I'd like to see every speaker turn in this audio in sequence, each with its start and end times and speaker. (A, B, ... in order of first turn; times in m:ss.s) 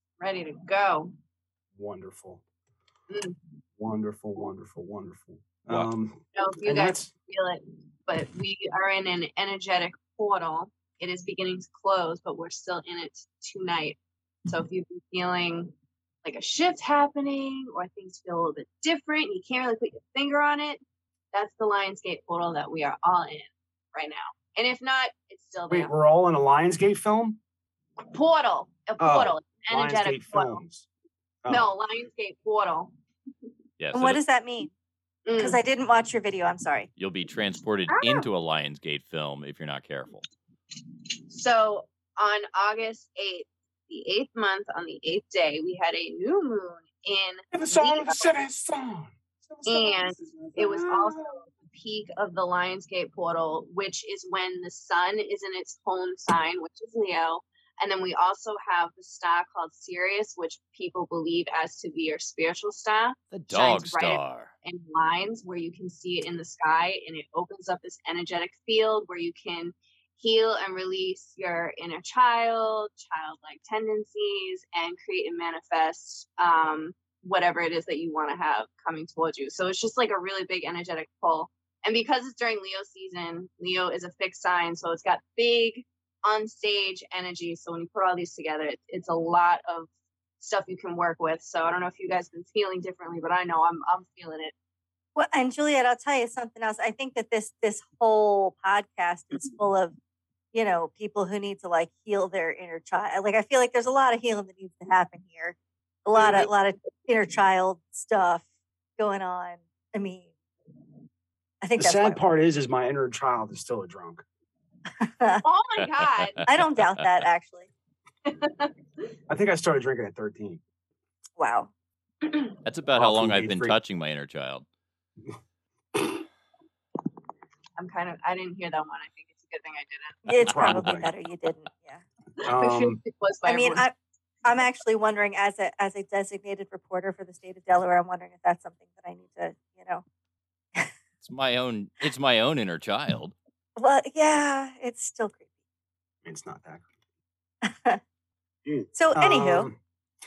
0:00.2-0:01.1 A
0:01.8-0:02.4 B
0:03.1-0:03.4 A
0:03.8-0:07.1 B
0:06.3-0:20.8 A
0:21.3-0:25.9 A
0:25.7-0:27.4 B
0:28.1-0:30.6 A
0:29.0-0:30.9 B
0:31.4-0:31.7 B
0:31.5-0:32.9 A
0:33.8-0:34.2 C
0:33.9-0:34.7 D
0:35.3-0:35.6 A
0:35.4-0:36.9 D
0:37.0-0:40.2 C
0:37.9-0:38.3 A
0:41.3-0:48.3 A
0:47.5-0:51.4 B
0:49.6-1:34.5 A
1:03.3-1:04.5 C
1:35.2-1:40.0 D
1:40.5-1:48.5 D
1:46.1-1:46.5 B
1:49.0-1:50.3 D
1:51.6-1:52.3 D
1:51.8-1:54.2 B
1:55.0-1:55.4 D
1:55.4-1:56.4 A
1:56.4-1:57.1 C
1:56.4-1:57.7 D
1:58.3-1:58.7 A
1:59.3-2:00.6 B
2:01.4-2:01.7 D
2:02.6-2:04.7 C
2:03.0-2:03.8 B
2:07.8-2:10.2 A
2:10.2-2:12.0 D
2:10.4-2:11.1 B
2:12.4-2:13.0 B
2:12.4-2:13.9 A
2:13.5-2:20.0 D
2:21.2-2:23.4 C
2:23.8-2:25.5 D
2:26.2-2:26.9 B
2:27.6-2:28.0 D
2:28.7-2:29.8 B
2:28.9-2:29.7 D